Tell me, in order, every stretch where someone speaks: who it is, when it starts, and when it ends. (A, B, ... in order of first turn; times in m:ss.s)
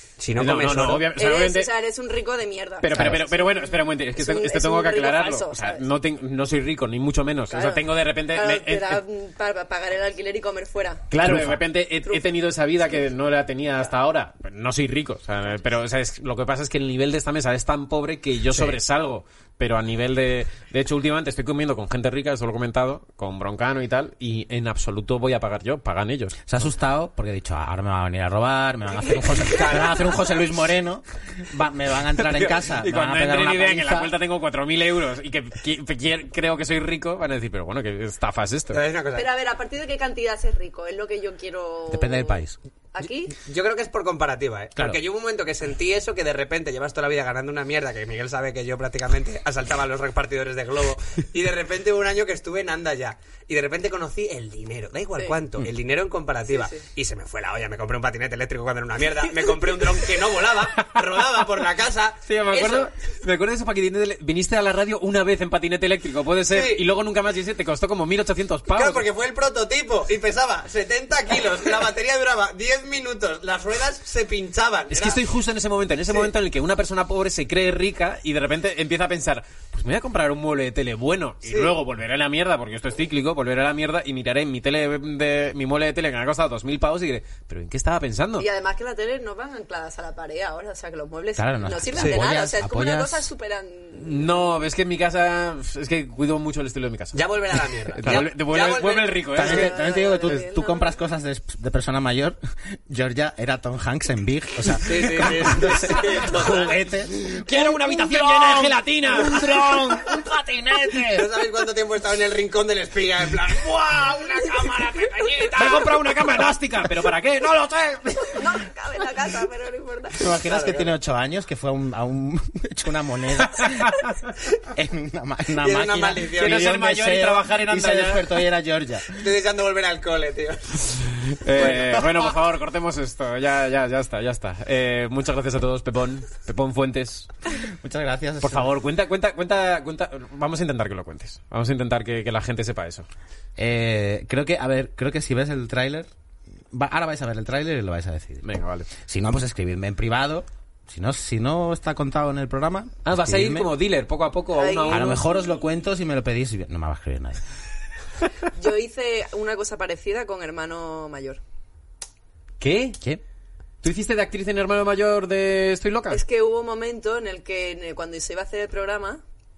0:00.2-0:01.1 A
0:00.4-0:01.7 B
0:01.1-0:05.8 C
0:02.8-0:09.0 B
0:07.5-0:11.1 C
0:11.1-0:26.4 B
0:11.2-0:11.6 D
0:12.8-0:13.1 C
0:26.5-0:34.1 D
0:29.5-0:29.9 C
0:29.6-0:30.0 A
0:32.2-0:38.8 B
0:38.7-0:39.3 A
0:39.2-0:42.4 C
0:41.9-0:42.6 D
0:42.9-0:43.4 C
0:43.4-1:02.9 A
0:56.5-0:56.8 C
0:59.2-1:00.3 C
1:02.2-1:09.0 B
1:06.5-1:06.8 A
1:08.7-1:15.2 A
1:14.9-1:28.5 B
1:21.4-1:21.8 A
1:28.4-1:34.5 C
1:31.4-1:33.3 D
1:34.0-1:39.7 B
1:37.1-1:39.4 A
1:39.3-1:51.3 D
1:39.4-1:41.0 C
1:44.8-1:46.7 A
1:47.4-1:49.6 B
1:51.1-1:56.0 A
1:55.5-1:58.4 B
1:58.2-2:00.3 C
2:00.2-2:04.0 D
2:00.4-2:00.9 A
2:03.6-2:04.0 B
2:04.6-2:09.2 D
2:05.6-2:06.6 A
2:06.4-2:08.3 B
2:09.2-2:12.0 A
2:11.4-2:17.3 B
2:11.6-2:12.0 D
2:17.6-2:18.7 D
2:18.4-2:23.1 B
2:23.6-2:26.1 D
2:26.7-2:33.7 D
2:28.4-2:28.9 B
2:33.0-2:35.2 B
2:34.6-2:35.5 C
2:34.9-2:37.4 D
2:38.6-2:41.4 C
2:42.6-2:43.0 B
2:43.8-2:46.2 B
2:46.1-2:49.2 C